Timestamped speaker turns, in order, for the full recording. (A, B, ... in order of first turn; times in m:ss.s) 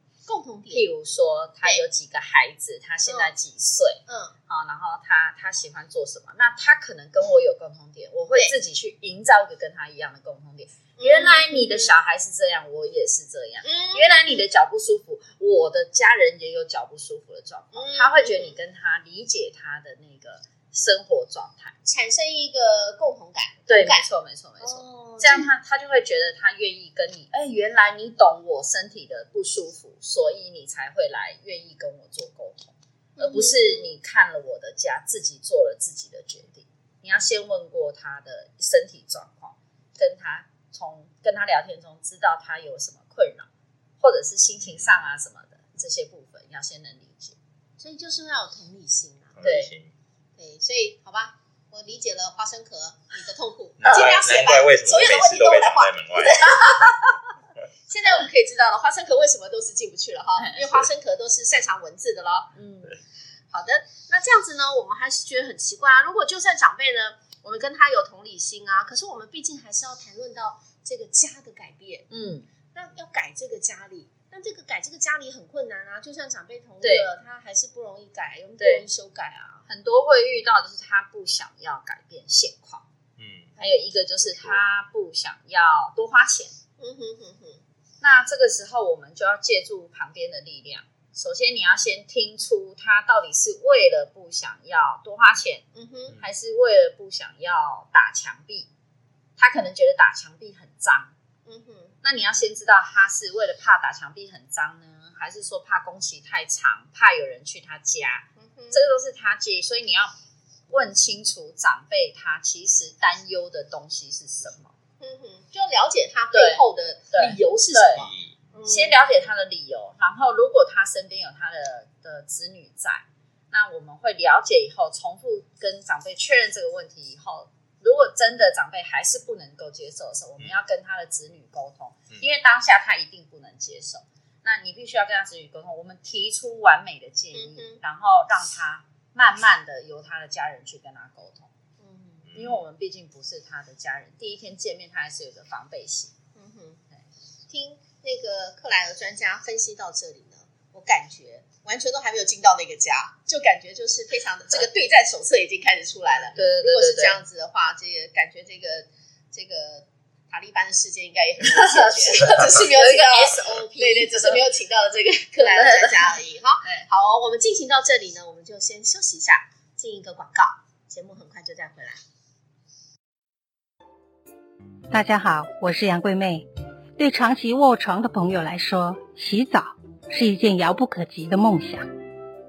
0:00.2-0:00.9 A
0:00.7-0:21.8 B
0:03.0-0:03.3 A
0:04.1-0:04.3 A
0:11.0-0:12.0 A
0:13.6-0:14.4 A
0:17.7-0:18.6 A
0:21.8-0:24.0 A
0:23.7-0:43.5 B
0:24.6-0:25.5 A
0:33.2-0:33.9 A
0:44.0-0:47.4 B
0:44.6-0:45.0 C
0:47.8-0:49.4 A
0:49.3-0:49.9 C
0:49.4-0:49.7 B
0:50.4-0:56.6 A
0:53.8-0:56.6 C
0:56.6-0:57.1 B
0:57.9-1:02.5 A
1:00.4-1:00.8 B
1:02.5-1:03.0 B
1:03.5-1:12.1 A
1:12.1-1:12.5 B
1:12.7-1:19.6 A
1:16.8-1:17.1 B
1:18.6-1:18.8 B
1:19.6-1:22.8 B
1:23.2-1:23.5 C
1:23.6-1:23.8 A
1:23.6-1:26.6 B
1:24.2-1:24.6 C
1:26.8-1:27.6 A
1:28.0-1:38.7 B
1:35.7-1:36.2 A
1:39.4-1:41.1 B
1:41.4-1:41.9 A
1:42.0-1:50.1 B
1:48.4-1:48.8 A
1:50.7-1:54.7 B
1:55.0-1:59.3 A
1:56.3-1:58.1 B
1:57.9-1:58.5 C
1:58.7-2:21.5 B
2:17.3-2:17.8 A
2:21.8-2:22.3 A
2:22.2-2:22.6 C
2:22.3-2:26.1 B
2:26.3-2:26.8 A
2:27.5-2:52.0 A
2:36.3-2:37.2 B
2:41.4-2:44.4 B
2:45.4-2:46.9 B
2:54.9-2:56.4 D
2:57.0-3:01.8 D